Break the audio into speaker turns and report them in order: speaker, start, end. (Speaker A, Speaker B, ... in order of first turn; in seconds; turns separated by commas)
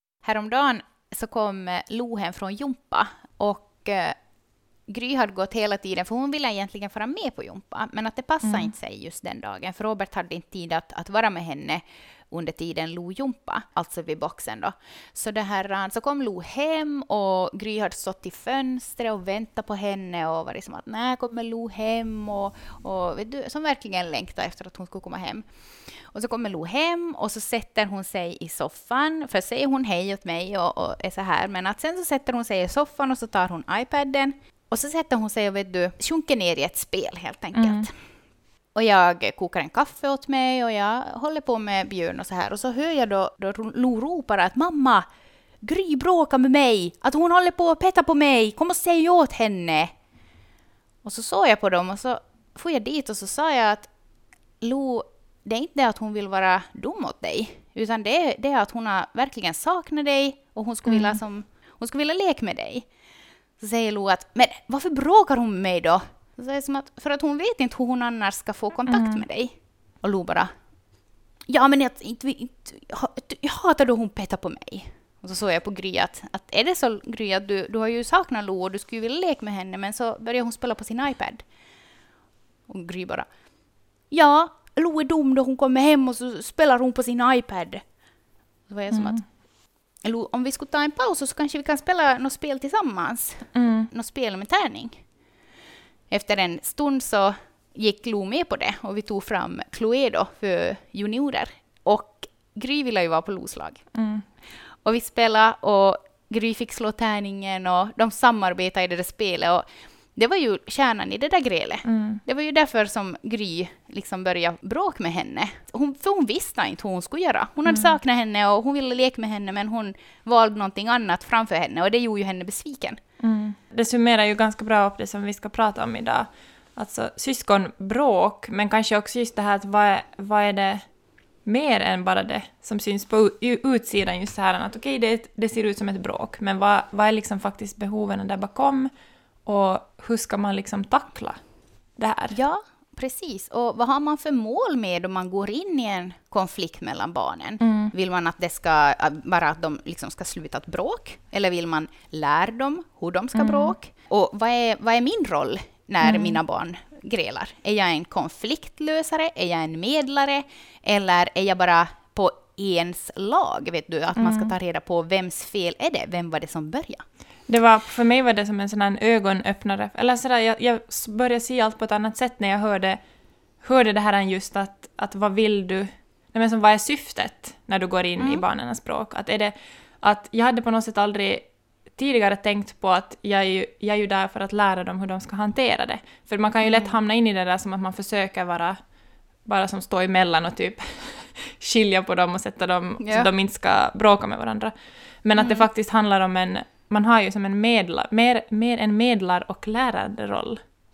Speaker A: 0.2-4.2, Speaker A: 4.9-25.5, Speaker B: 8.4-8.7, Speaker A: 26.1-38.0, Speaker B: 37.5-37.9, Speaker A: 38.8-45.1, Speaker A: 45.6-50.0, Speaker A: 51.0-53.9, Speaker A: 54.6-62.9, Speaker B: 60.9-61.2, Speaker A: 63.6-70.5, Speaker B: 68.9-69.2, Speaker A: 71.5-81.5, Speaker A: 82.7-83.3, Speaker A: 84.1-87.9, Speaker A: 88.7-89.4, Speaker B: 88.9-89.2, Speaker A: 90.0-95.0, Speaker B: 93.5-93.9, Speaker A: 96.1-103.8, Speaker B: 103.9-104.2, Speaker A: 104.8-123.0, Speaker B: 111.8-112.2, Speaker B: 117.7-117.9, Speaker B: 123.2-130.8, Speaker B: 131.4-138.9, Speaker B: 139.5-141.4, Speaker B: 142.0-142.4, Speaker A: 142.3-167.1, Speaker B: 147.6-147.9, Speaker B: 153.3-153.8, Speaker B: 156.0-156.4, Speaker B: 164.2-164.5, Speaker B: 167.5-173.0, Speaker B: 173.6-188.8, Speaker A: 178.2-178.4, Speaker A: 186.6-186.9, Speaker B: 189.4-200.6, Speaker A: 193.0-193.3, Speaker A: 195.4-195.7